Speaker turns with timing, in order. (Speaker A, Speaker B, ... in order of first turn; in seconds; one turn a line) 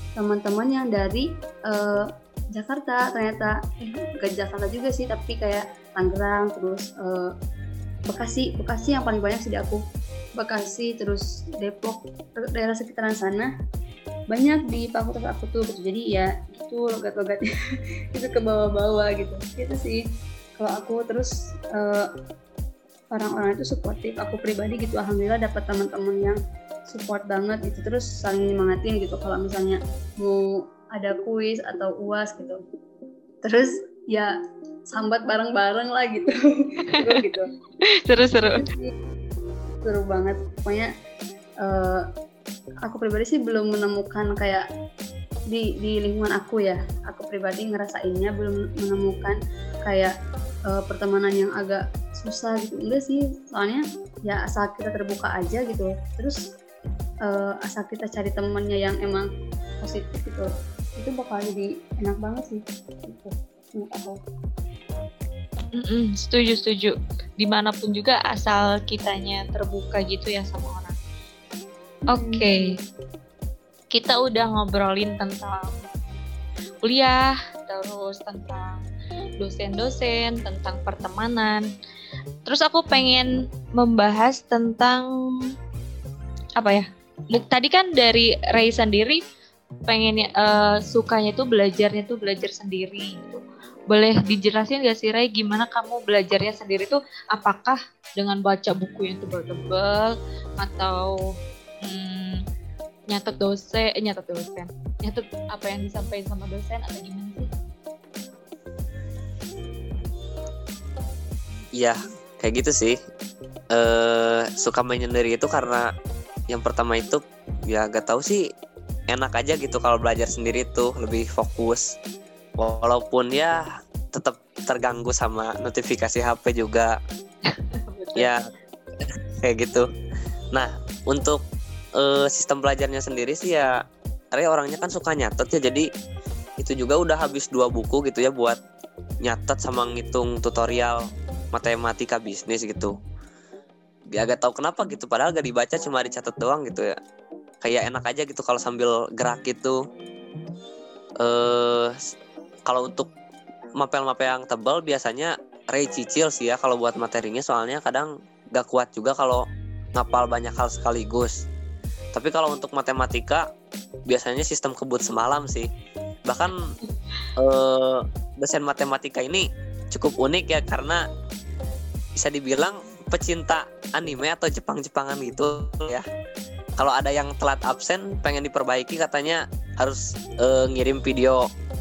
Speaker A: 0.2-7.3
Speaker A: 8.1-9.8
Speaker A: 10.4-13.5
Speaker A: 14.3-17.5
Speaker A: 18.1-20.1
Speaker A: 20.6-22.1
Speaker A: 23.1-26.4
Speaker A: 26.9-32.6
Speaker A: 33.4-34.3
Speaker A: 34.9-37.5
Speaker B: 36.9-37.2
Speaker B: 38.0-38.6
Speaker A: 38.4-38.9
Speaker A: 39.8-40.9
Speaker A: 41.6-42.1
Speaker A: 42.8-44.6
Speaker A: 45.5-50.1
Speaker A: 50.7-56.4
Speaker A: 57.2-59.2
Speaker A: 59.8-64.2
Speaker B: 65.8-71.0
Speaker A: 72.1-72.6
Speaker B: 72.1-72.7
Speaker B: 73.9-75.8
Speaker B: 76.8-78.8
Speaker B: 79.4-81.7
Speaker B: 82.4-85.1
Speaker B: 86.6-89.2
Speaker B: 89.9-101.2
Speaker B: 101.8-102.4
Speaker B: 103.1-107.5
Speaker C: 111.8-113.0
Speaker C: 113.7-115.9
Speaker C: 116.5-118.4
Speaker C: 119.1-121.9
Speaker C: 122.6-123.6
Speaker C: 124.1-126.9
Speaker B: 127.7-128.3
Speaker C: 128.2-128.4
Speaker C: 129.4-129.8
Speaker C: 130.5-131.4
Speaker C: 132.0-133.7
Speaker C: 134.3-135.8
Speaker C: 136.6-138.6
Speaker C: 139.2-141.0
Speaker C: 141.5-142.9
Speaker C: 144.1-146.9
Speaker C: 147.6-149.8
Speaker C: 151.2-152.0
Speaker C: 152.7-153.1
Speaker C: 153.8-161.3
Speaker C: 162.1-163.4
Speaker C: 164.1-165.7
Speaker C: 166.3-166.6
Speaker C: 167.4-171.0
Speaker C: 172.2-176.0
Speaker C: 176.8-181.5